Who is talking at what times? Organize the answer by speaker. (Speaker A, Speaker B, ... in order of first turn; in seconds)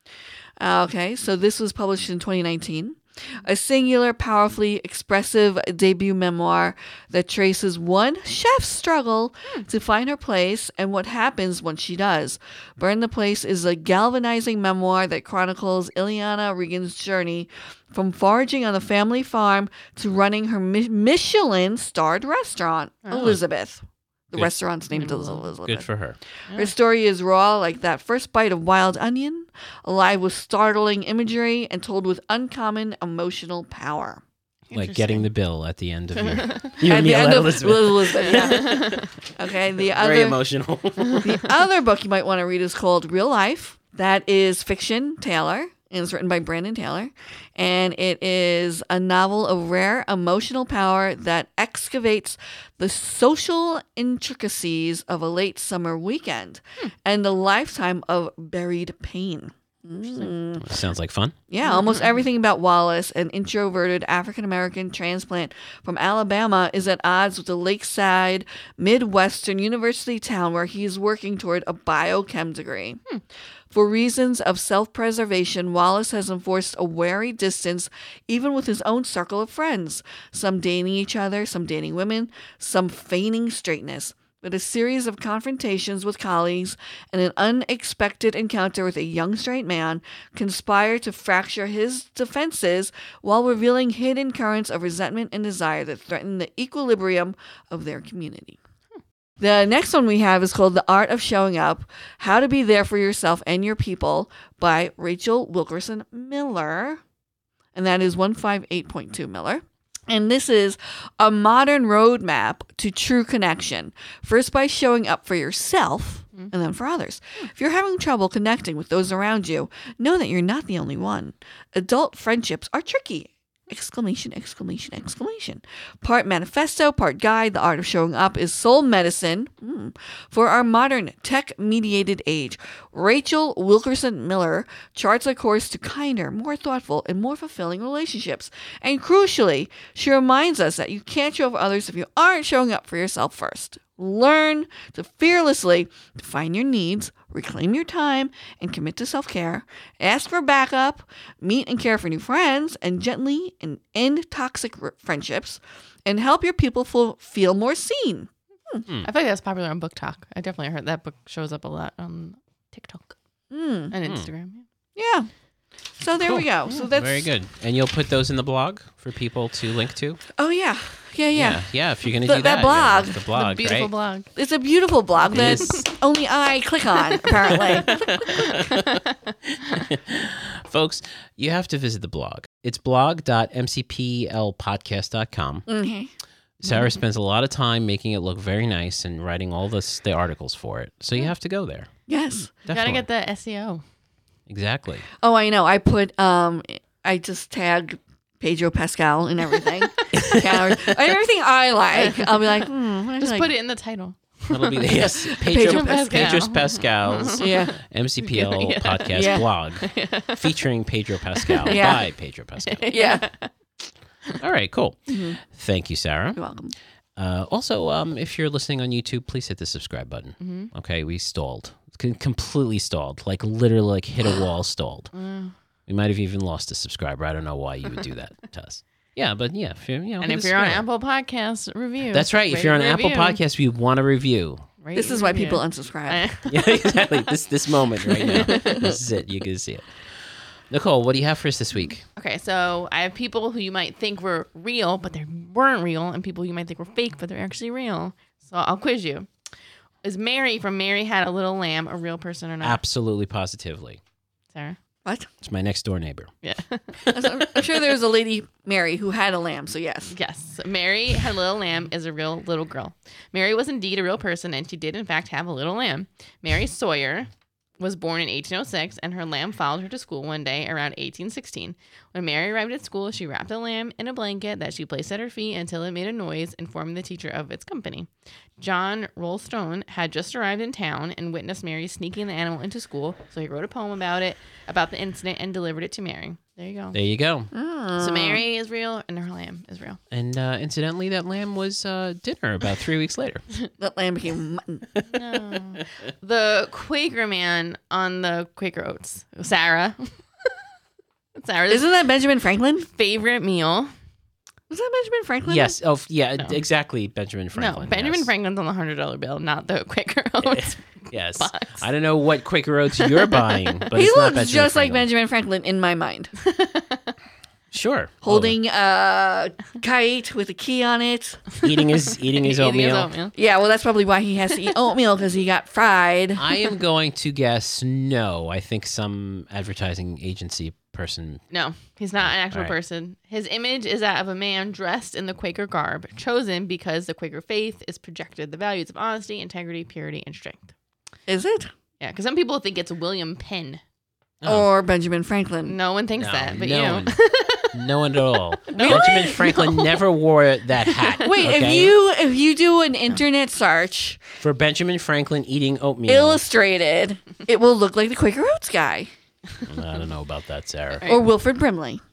Speaker A: 0.6-25.9, 26.5-34.2, 36.8-40.4, 41.2-60.6, 61.5-73.0, 73.7-98.6, 99.4-107.0, 107.7-158.8, 163.5-163.9, 164.9-165.3, 166.0-167.3, 170.4-171.7, 172.2-173.2, 174.3-178.1, 185.7-186.1, 192.1-192.5, 195.2-203.5, 204.9-206.2, 207.4-207.8, 209.1-209.4, 211.7-212.1, 212.9-213.2, 215.1-215.4, 216.3-216.7, 234.9-236.2, 238.4-238.9, 257.1-260.1, 287.5-288.4, 293.8-294.9, 301.7-302.9, 304.7-305.8, 313.9-316.3, 318.2-321.4, 323.3-326.4, 341.3-341.7, 344.4-345.8, 348.7-349.4, 351.2-354.2, 356.1-359.1, 361.1-362.0
Speaker B: 23.0-23.3, 24.9-25.4, 34.7-35.3, 36.1-36.7, 38.3-39.1, 60.0-60.3, 61.6-62.2, 159.0-163.2, 163.9-164.7, 173.3-174.3, 175.2-175.9, 177.1-179.8, 192.7-193.8, 201.9-202.6, 203.2-204.8, 205.6-210.6, 211.4-211.8, 212.6-213.5, 220.4-220.7, 225.1-225.5, 230.2-233.4, 234.8-237.3, 238.1-238.6, 242.1-249.3, 250.0-252.8, 254.5-254.8, 256.4-257.6, 260.1-287.0, 287.9-290.0, 295.1-300.5, 301.4-302.0, 302.9-303.9, 307.5-311.9, 313.0-313.8, 316.4-317.1, 322.3-323.3, 331.5-340.7, 342.0-343.8, 345.6-347.8, 348.7-350.1, 350.9-351.2, 360.9-361.2
Speaker C: 23.1-23.4, 25.6-26.2, 34.7-38.9, 39.9-41.5, 60.6-61.3, 166.2-170.2, 171.3-173.9, 175.3-175.8, 177.5-178.9, 179.6-185.7, 186.6-191.9, 192.6-193.0, 194.5-195.0, 200.1-200.9, 204.5-213.0, 214.4-216.4, 217.2-225.1, 225.9-230.8, 232.1-234.6, 236.5-240.0, 240.7-242.0, 252.6-254.0, 255.4-256.3, 286.9-287.5, 290.1-293.4, 305.4-308.3, 310.4-315.1, 317.7-318.6, 321.6-323.1, 326.4-331.4, 332.2-332.8, 344.4-344.7, 346.1-351.9, 354.4-356.4, 359.6-361.1